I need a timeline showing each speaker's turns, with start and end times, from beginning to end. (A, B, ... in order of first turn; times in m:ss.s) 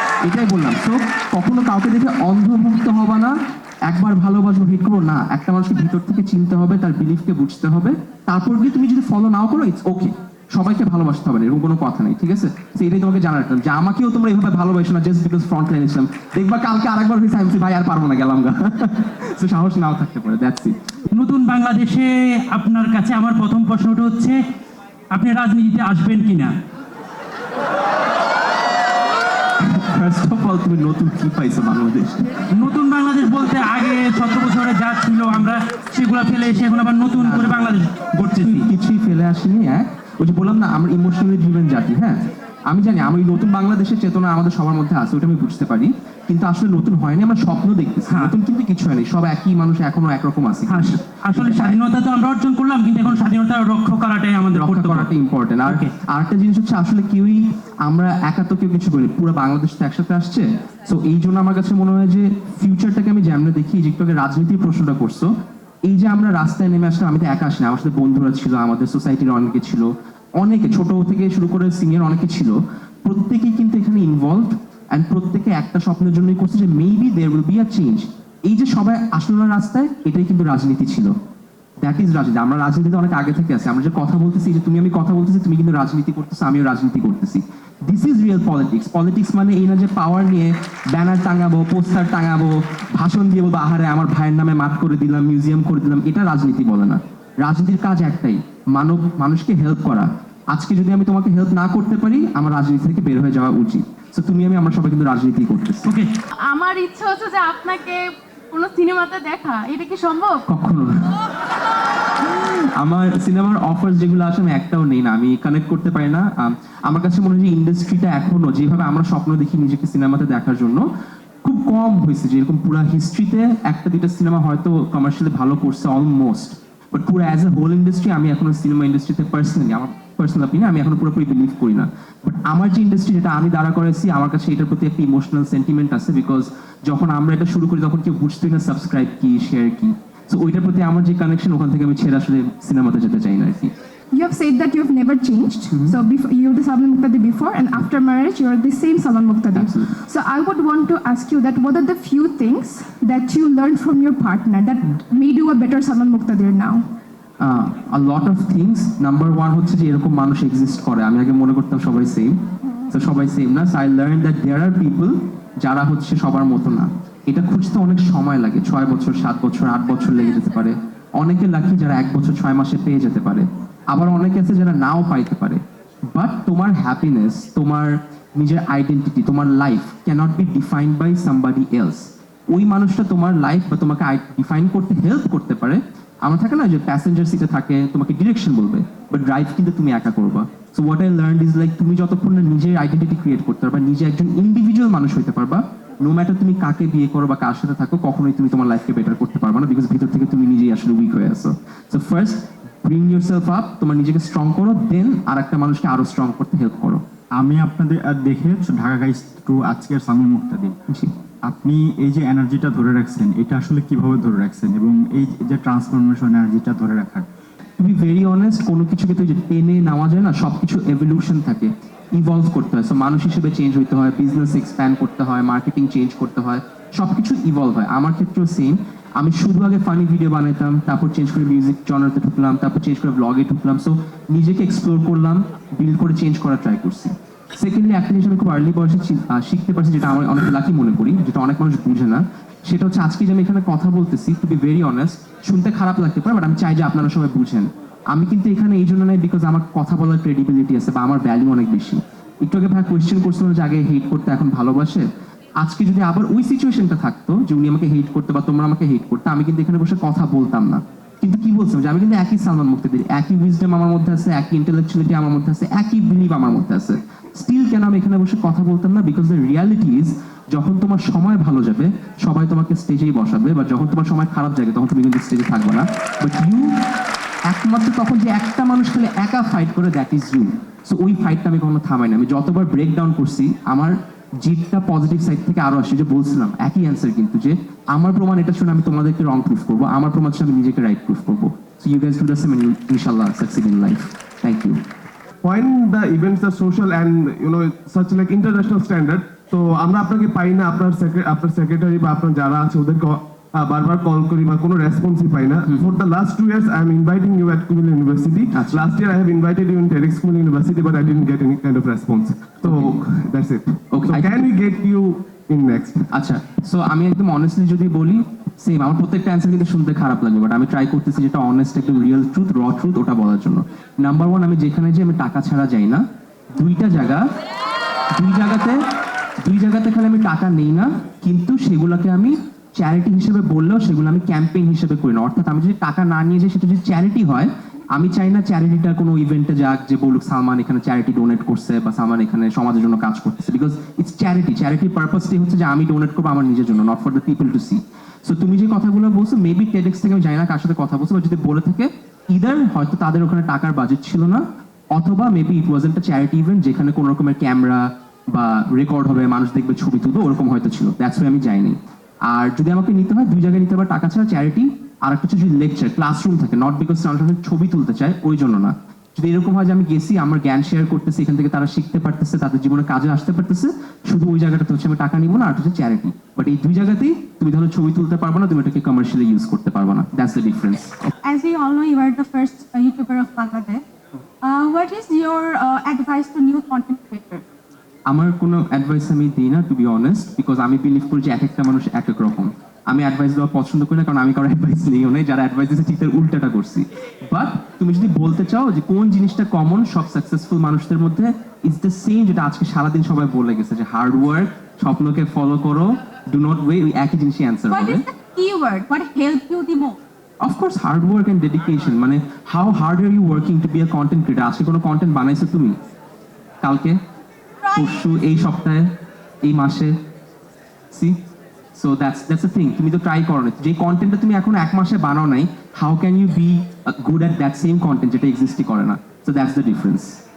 0:00.2-0:03.4 A
0:03.9-0:20.8 A
0:21.1-0:24.4 B
0:25.1-0:26.5 B
0:29.6-0:32.3 A
0:32.6-0:38.6 B
0:37.1-0:51.8 A
0:50.7-0:55.1 B
0:54.5-1:05.3 A
1:05.9-1:09.9 A
1:10.4-1:21.1 A
1:21.8-1:45.9 A
1:46.5-1:47.8 C
1:46.8-1:48.0 D
1:48.5-1:50.4 D
1:48.5-1:50.1 C
1:50.5-1:51.1 A
1:52.2-2:00.9 A
2:01.4-2:23.7 A
2:24.1-2:36.8 E
2:29.5-2:29.9 A
2:37.4-2:42.4 A
2:42.9-3:27.0 A
3:27.4-3:30.8 F
3:31.4-3:37.3 F
3:37.8-4:15.0 A
4:15.6-4:36.7 A
4:37.5-4:54.8 A
4:55.4-5:16.1 G
5:08.5-5:08.9 A
5:12.6-5:13.0 A
5:13.9-5:14.5 A
5:16.1-5:26.0 A
5:26.6-5:27.3 A
5:28.2-5:28.8 A
5:29.4-6:01.8 A
6:02.3-6:21.0 A
6:21.2-6:23.8 D
6:24.4-6:27.4 D
6:28.1-6:48.0 A
6:47.7-6:50.0 D
6:50.4-6:55.8 A
6:56.6-6:57.0 A
6:57.7-6:58.9 A
6:59.4-7:00.0 A
7:00.9-7:01.2 A
7:01.8-7:10.2 A